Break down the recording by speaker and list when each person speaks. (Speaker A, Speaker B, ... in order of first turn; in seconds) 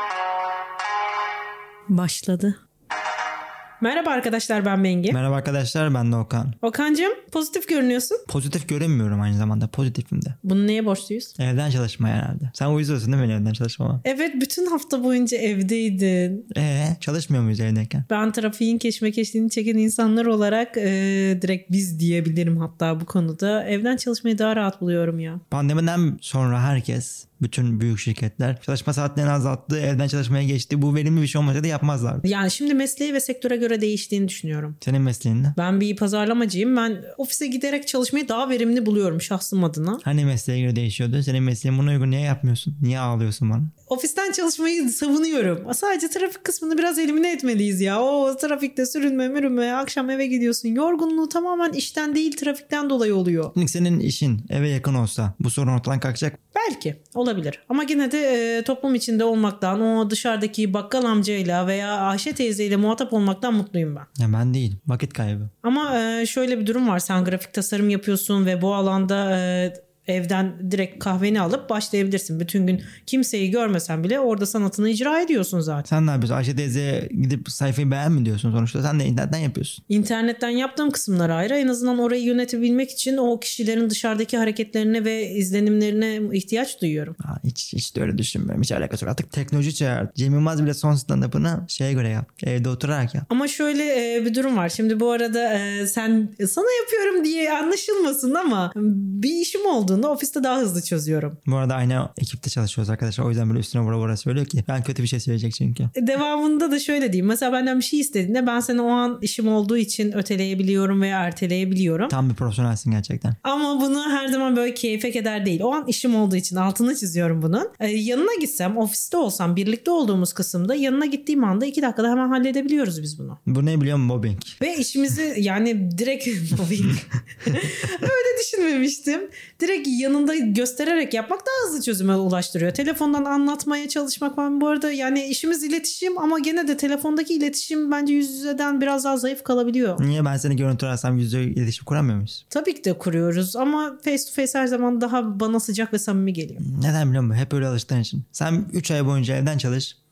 Speaker A: 1.9-2.5, 3.8-5.2, 6.6-8.2, 10.4-11.3, 14.0-16.4, 18.1-25.4, 32.2-34.8, 35.5-40.0, 43.9-53.5, 56.5-64.1, 65.6-75.8, 79.9-87.1, 93.3-101.4, 106.0-112.1, 113.4-123.4, 124.6-140.0, 142.5-146.6
Speaker B: 5.1-6.6, 8.3-10.3, 11.4-14.0, 16.5-18.1, 25.5-32.2, 34.8-35.5, 40.0-43.7, 53.5-56.4, 64.2-65.5, 75.9-79.8, 87.2-93.2, 101.5-105.9, 112.1-113.3, 123.5-124.6, 140.0-142.4, 146.6-150.0